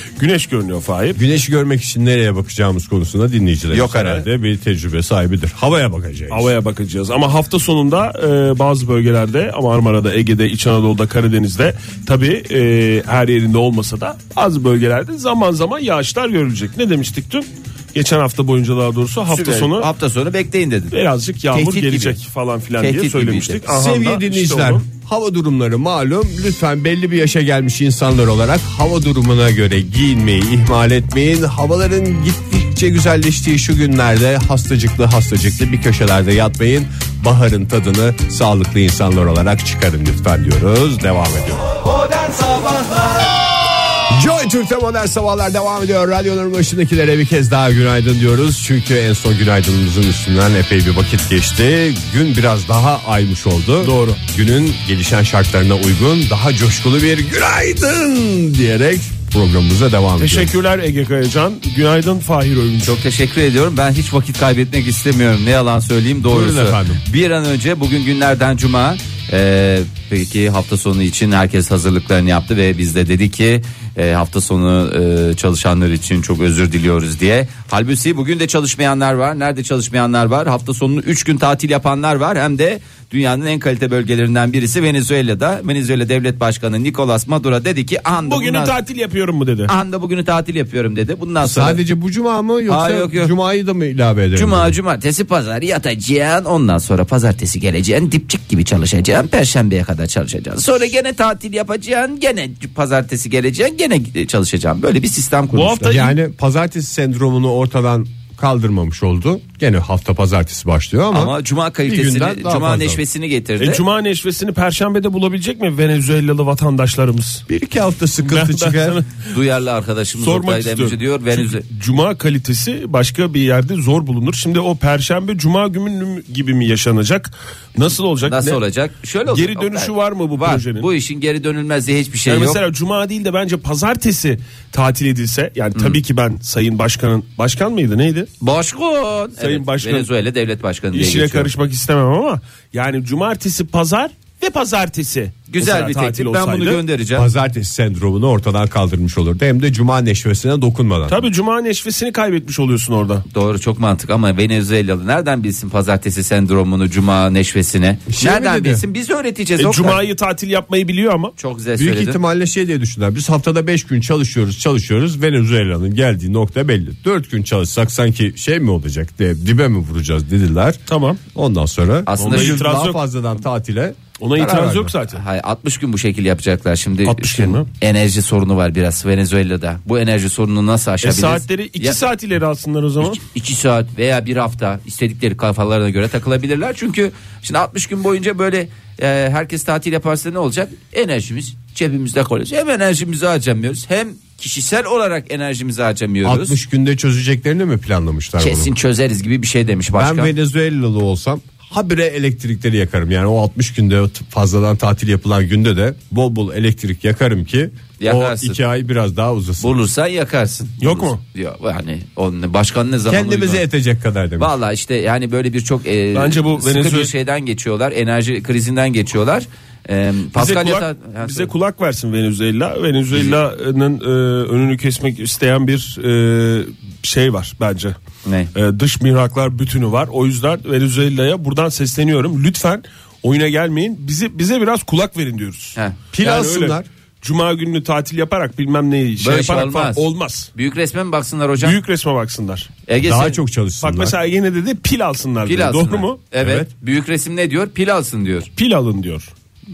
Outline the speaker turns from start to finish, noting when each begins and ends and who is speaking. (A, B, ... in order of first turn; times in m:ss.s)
0:00.2-0:01.2 A
0:01.2-0:06.5 B
0:03.7-0:04.3 C
0:06.3-0:19.9 A
0:19.3-0:20.9 C
0:20.9-0:24.8 A
0:21.5-0:22.2 C
0:22.8-0:23.7 C
0:23.7-0:41.7 B
0:44.1-1:00.5 B
0:53.8-0:54.2 A
1:00.2-1:03.0 A
1:02.8-1:28.8 C
1:06.3-1:07.0 B
1:28.2-1:29.8 A
1:29.7-1:31.8 C
1:31.4-1:34.7 B
1:32.7-1:33.3 C
1:34.4-1:46.0 C
1:45.5-1:46.2 A
1:45.8-1:53.0 B
1:51.1-1:53.8 C
1:53.6-1:57.4 A
1:57.5-1:59.0 B
1:58.2-1:59.3 A
1:59.3-2:01.6 C
2:00.2-2:08.6 A
2:08.2-2:12.6 C
2:09.3-2:10.9 A
2:12.3-2:18.3 A
2:18.4-2:21.5 C
2:19.4-2:20.1 A
2:20.9-2:26.8 A
2:25.5-2:27.3 C
2:27.2-2:31.2 B
2:31.1-2:33.2 A
2:33.3-2:40.0 C
2:38.1-2:38.8 B
2:39.6-2:41.3 A
2:41.4-2:42.2 C
2:41.8-2:50.8 B
2:50.9-2:51.2 A
2:51.3-2:55.0 B
2:52.1-2:52.7 C
2:52.2-2:53.0 A
2:54.2-2:55.2 A
2:55.1-3:02.0 C
2:57.0-2:57.7 A
3:01.0-3:03.2 A
3:03.0-3:16.6 C
3:16.2-3:18.7 B
3:18.4-3:20.3 C
3:19.9-3:29.8 B
3:28.0-3:28.6 C
3:29.6-3:33.6 C
3:30.8-3:31.2 A
3:33.1-3:34.5 B
3:34.4-3:41.5 C
3:36.1-3:37.1 A
3:40.3-3:48.0 A
3:48.2-3:48.5 C
3:48.5-4:00.5 A
3:56.1-3:56.9 B
3:59.2-4:00.0 C
4:00.6-4:01.8 C
4:01.6-4:02.7 A
4:02.9-4:03.4 C
4:03.0-4:04.2 B
4:03.8-4:06.2 A
4:05.4-4:08.5 C
4:06.4-4:06.7 B
4:08.6-4:09.3 A